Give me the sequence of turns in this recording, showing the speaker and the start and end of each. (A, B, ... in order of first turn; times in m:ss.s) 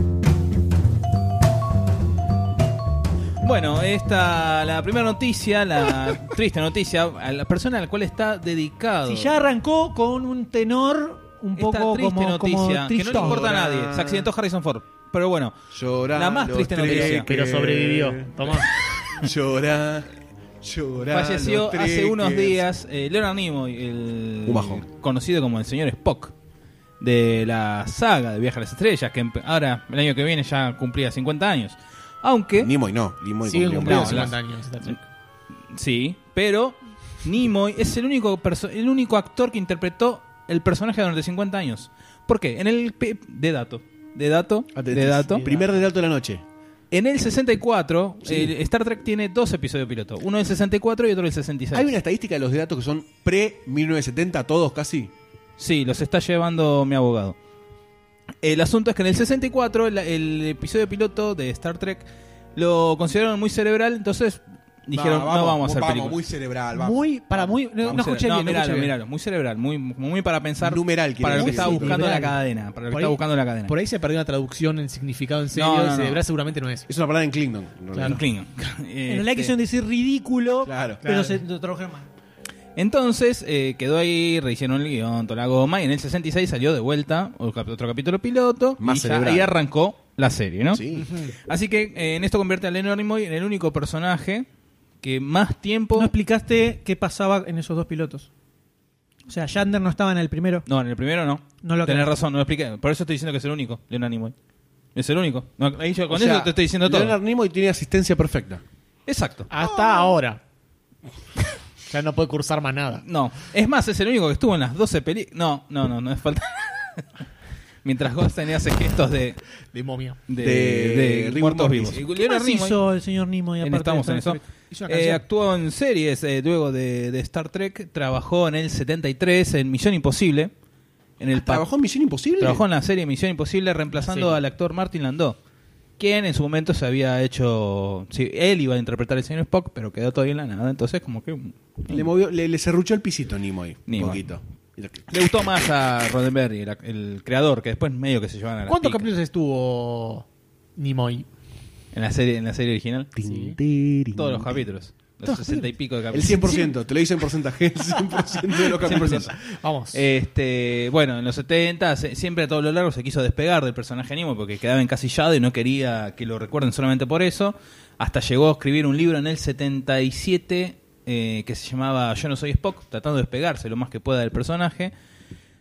0:03.4-0:09.3 A
0:09.1-0:13.4 B
0:11.6-0:15.6 A
0:13.1-0:14.3 C
0:15.7-0:18.6 C
0:16.1-0:17.3 A
0:16.8-0:18.7 D
0:19.2-0:20.1 C
0:20.6-0:22.6 C
0:21.1-0:26.3 A
0:24.5-0:24.8 C
0:27.0-0:32.7 A
0:32.6-0:34.3 C
0:33.4-0:35.0 D
0:33.8-0:34.3 A
0:35.7-0:45.4 A
0:44.8-0:46.4 C
0:45.3-0:45.9 D
0:46.9-0:51.9 A
0:48.2-0:48.5 C
0:51.7-0:55.1 C
0:55.6-0:57.4 A
0:58.4-1:06.2 A
1:04.9-1:07.5 C
1:06.7-1:08.9 D
1:07.8-1:13.8 A
1:10.6-1:12.0 C
1:11.3-1:12.4 D
1:12.9-1:16.9 D
1:15.5-1:16.2 A
1:16.9-1:18.2 C
1:17.9-1:18.2 D
1:18.0-1:19.5 A
1:19.1-1:22.1 B
1:20.6-1:21.0 C
1:21.0-1:21.4 D
1:22.8-1:30.8 A
1:28.8-1:29.5 C
1:30.7-1:31.1 C
1:31.0-1:31.3 D
1:31.5-1:34.5 A
1:35.0-1:36.1 A
1:36.0-1:38.3 B
1:39.3-1:40.6 B
1:40.7-1:44.3 A
1:41.6-1:42.1 B
1:45.0-1:47.2 A
1:46.1-1:48.6 C
1:49.1-1:49.5 A
1:49.5-1:50.4 D
1:51.9-1:53.0 D
1:53.0-1:57.0 A
1:57.8-1:59.4 A
1:59.7-2:00.2 D
2:00.3-2:02.8 A
2:00.4-2:02.0 C
2:02.2-2:04.4 B
2:03.6-2:10.5 A
2:04.7-2:05.2 D
2:11.2-2:11.7 A
2:11.3-2:12.6 C
2:12.4-2:15.4 A
2:13.9-2:14.4 D
2:16.0-2:22.1 A
2:21.9-2:25.0 C
2:23.9-2:24.2 A
2:25.1-2:29.1 A
2:28.7-2:31.3 D
2:31.9-2:33.1 A
2:33.2-2:34.6 C
2:33.2-2:33.6 D
2:34.2-2:36.6 A
2:35.2-2:35.7 D
2:36.1-2:39.3 C
2:36.3-2:36.7 D
2:38.3-2:40.1 D
2:38.8-2:39.3 A
2:39.9-2:54.9 A